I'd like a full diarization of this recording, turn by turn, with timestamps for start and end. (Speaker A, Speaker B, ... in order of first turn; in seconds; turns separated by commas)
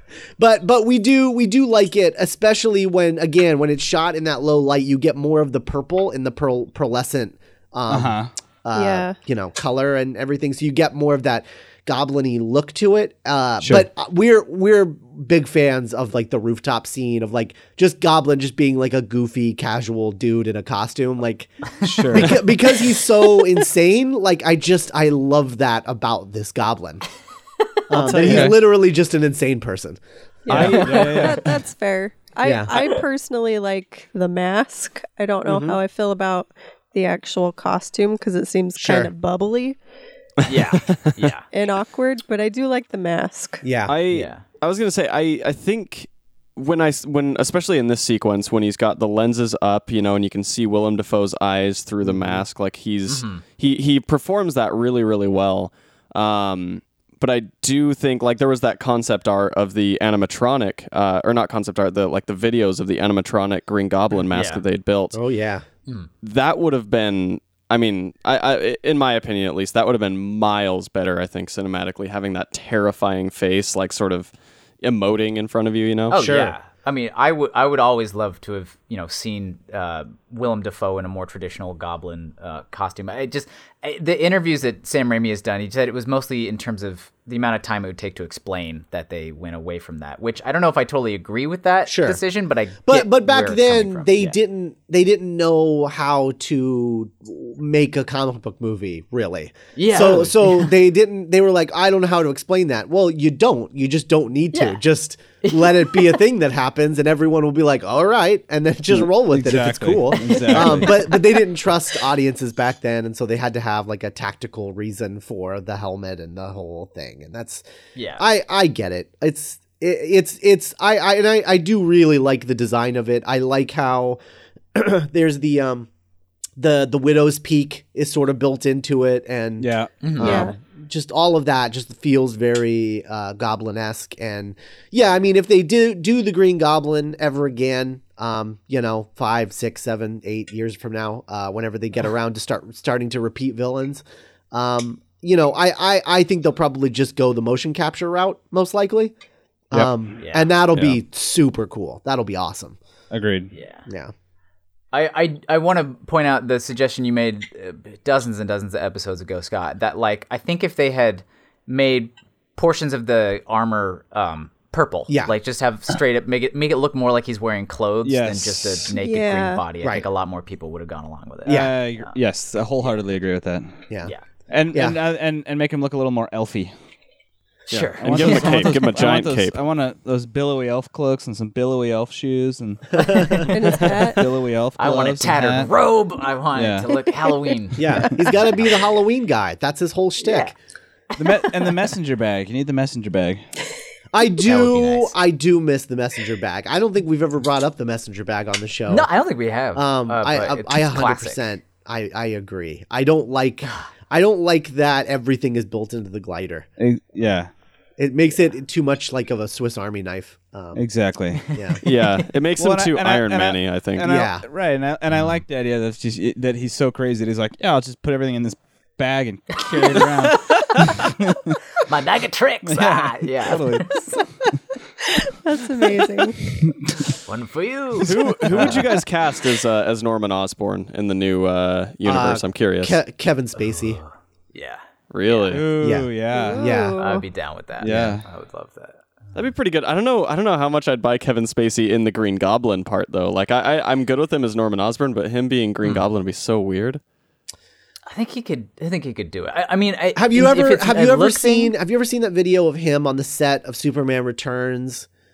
Speaker A: 0.4-27.0, Speaker B: 7.9-8.3, Speaker C: 8.7-9.2, Speaker B: 21.8-22.4, Speaker A: 27.9-30.0, Speaker D: 27.9-28.5, Speaker B: 28.2-28.6, Speaker B: 30.5-31.5, Speaker C: 30.5-39.8, Speaker D: 30.5-30.9, Speaker E: 30.8-31.5, Speaker A: 32.4-32.8, Speaker A: 35.5-35.8, Speaker A: 38.8-39.1, Speaker E: 40.5-41.5, Speaker D: 40.5-41.2, Speaker C: 41.5-43.6, Speaker A: 43.6-44.0, Speaker D: 43.9-65.2, Speaker E: 44.1-44.4, Speaker A: 52.0-52.4, Speaker E: 53.0-53.4, Speaker E: 64.3-64.6, Speaker A: 65.1-65.6, Speaker D: 66.2-76.2, Speaker E: 76.1-94.3, Speaker A: 76.1-76.6, Speaker A: 91.8-92.2, Speaker A: 92.8-117.6, Speaker E: 99.8-100.7, Speaker E: 104.5-104.8, Speaker E: 105.4-106.1, Speaker B: 108.9-111.0, Speaker E: 110.3-111.2, Speaker E: 118.0-118.2, Speaker A: 118.2-124.2, Speaker A: 124.7-125.9, Speaker A: 126.6-149.1, Speaker B: 129.6-129.9, Speaker E: 130.0-130.5, Speaker C: 130.2-130.5, Speaker A: 149.7-152.8, Speaker B: 149.7-150.1, Speaker E: 150.2-150.5, Speaker B: 153.1-153.5, Speaker E: 153.5-153.8, Speaker A: 153.9-154.1, Speaker E: 154.9-172.1, Speaker B: 168.0-168.8, Speaker C: 168.9-169.6, Speaker A: 171.4-171.7, Speaker B: 171.4-173.7, Speaker B: 174.5-176.7, Speaker A: 174.7-175.0, Speaker E: 177.7-178.7, Speaker D: 177.7-179.6, Speaker B: 178.0-185.7, Speaker A: 183.0-183.4, Speaker C: 183.5-184.2, Speaker E: 184.8-188.7, Speaker B: 186.5-186.9, Speaker A: 187.8-190.5, Speaker E: 190.2-190.5, Speaker B: 191.2-193.4, Speaker E: 191.2-191.7, Speaker A: 194.1-199.1, Speaker E: 194.4-195.1, Speaker E: 198.9-201.4, Speaker A: 199.7-206.7, Speaker B: 206.8-207.5, Speaker A: 208.0-210.8, Speaker B: 210.8-211.4, Speaker A: 211.5-211.8, Speaker D: 211.8-214.1, Speaker B: 212.6-221.6, Speaker A: 214.0-214.4, Speaker E: 221.9-224.1, Speaker B: 222.7-223.9, Speaker C: 225.4-226.5, Speaker E: 227.2-228.8, Speaker D: 228.0-233.0, Speaker B: 228.5-228.9, Speaker A: 232.0-234.0, Speaker E: 233.6-235.6, Speaker D: 235.1-235.7, Speaker B: 235.5-236.6, Speaker A: 235.8-237.0, Speaker C: 236.3-237.2, Speaker E: 237.0-239.0, Speaker B: 237.8-238.2, Speaker D: 239.3-247.0, Speaker E: 248.1-251.7, Speaker A: 250.1-255.1